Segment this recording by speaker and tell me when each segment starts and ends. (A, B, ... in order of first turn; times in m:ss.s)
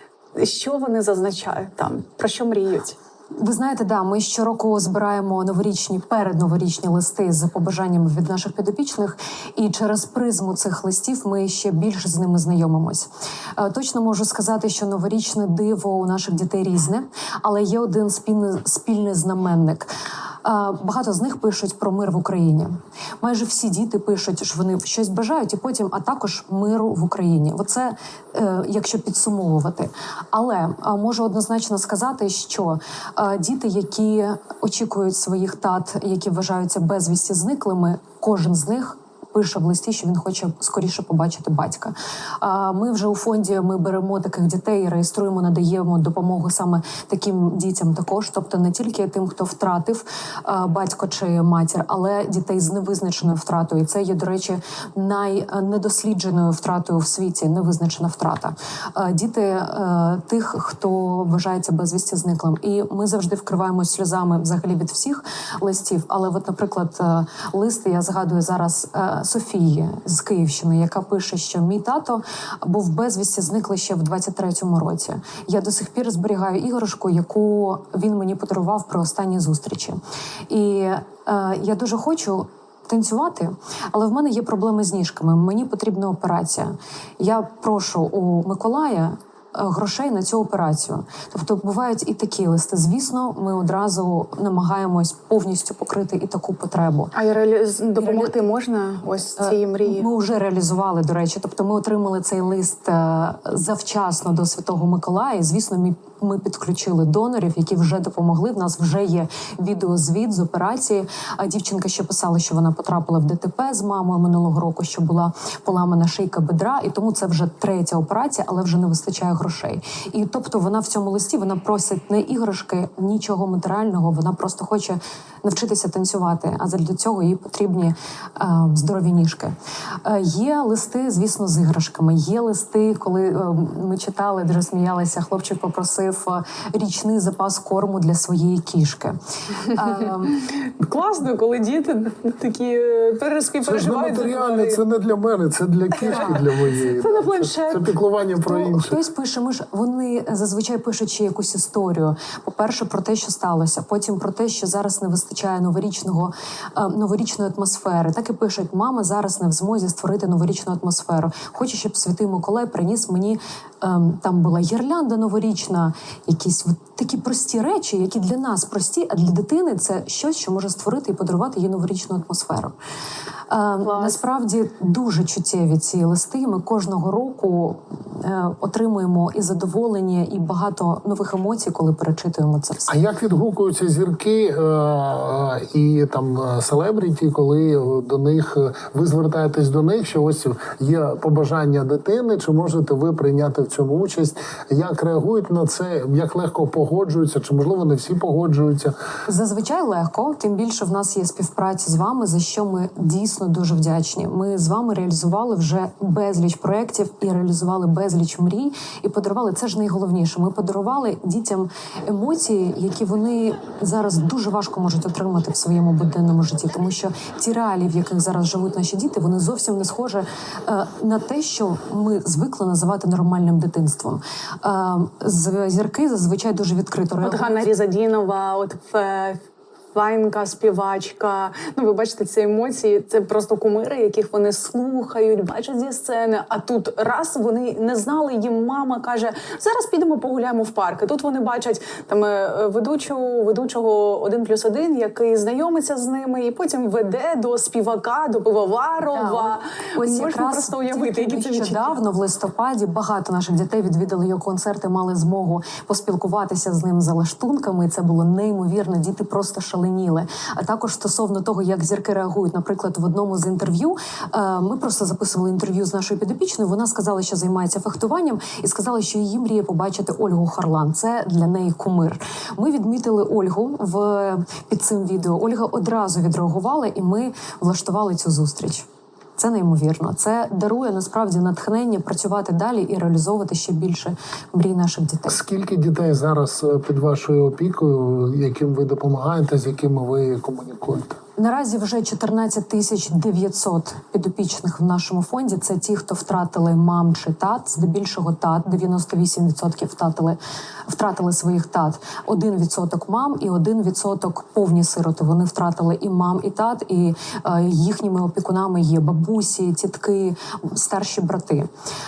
0:00.4-0:03.0 A
0:03.4-0:19.9 B
0:20.4-1:20.0 B
1:20.5-1:37.1 B
1:37.1-1:40.0 A
1:38.0-1:38.3 B
1:39.4-2:09.5 B
2:10.0-2:20.3 B
2:20.3-2:24.8 A
2:23.6-2:29.0 C
2:26.0-2:26.5 B
2:26.1-2:27.9 A
2:28.4-2:52.7 B
2:53.5-3:02.9 B
2:53.8-2:54.2 A
3:02.9-3:18.9 C
3:19.3-3:47.5 B
3:47.2-3:49.4 A
3:49.9-4:12.0 A
4:09.1-4:38.8 B
4:39.4-4:45.4 B
4:45.3-4:51.2 C
4:51.4-5:11.7 B